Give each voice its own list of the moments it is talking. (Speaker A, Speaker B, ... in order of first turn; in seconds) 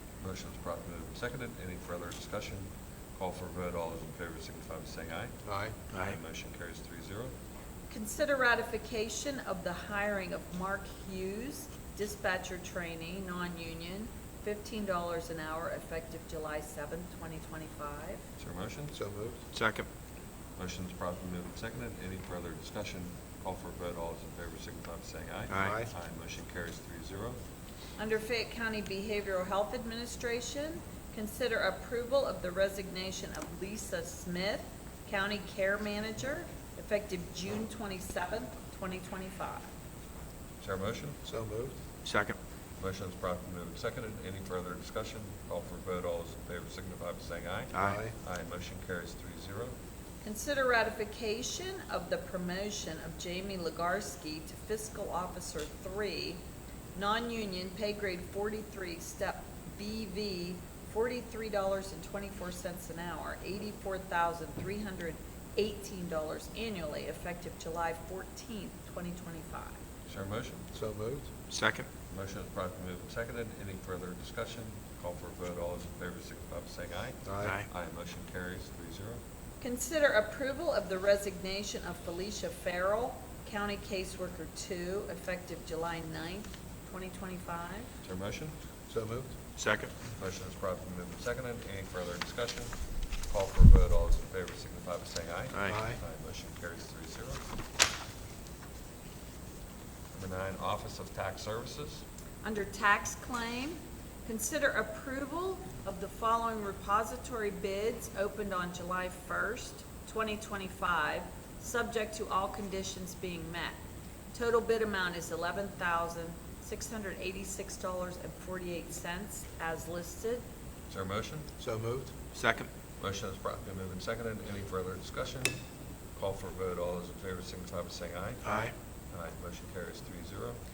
Speaker A: 0.2-5.3, 5.9-7.3, 18.4-19.0, 20.6-27.4, 40.6-41.2, 42.8-49.7, 70.1-70.7, 72.1-79.2, 88.0-88.5, 90.1-92.7, 93.3-97.4, 100.1-102.0, 120.9-121.5, 123.0-125.5, 126.2-130.6
Speaker B: 5.5-5.8, 18.9-19.4, 25.5-25.9, 41.3-41.8, 47.8-48.1, 70.7-71.3, 77.2-77.6, 88.9-89.3, 95.7-96.0, 121.6-122.1
Speaker C: 5.9-6.2, 19.5-19.9, 25.5-25.8, 42.0-42.4, 47.7-48.0, 71.5-71.9, 89.6-89.9, 95.5-95.8, 122.3-122.7, 128.4-128.7
Speaker D: 7.9-18.2, 28.0-39.7, 50.2-56.4, 57.0-69.8, 79.6-87.9, 102.4-113.8, 114.3-120.4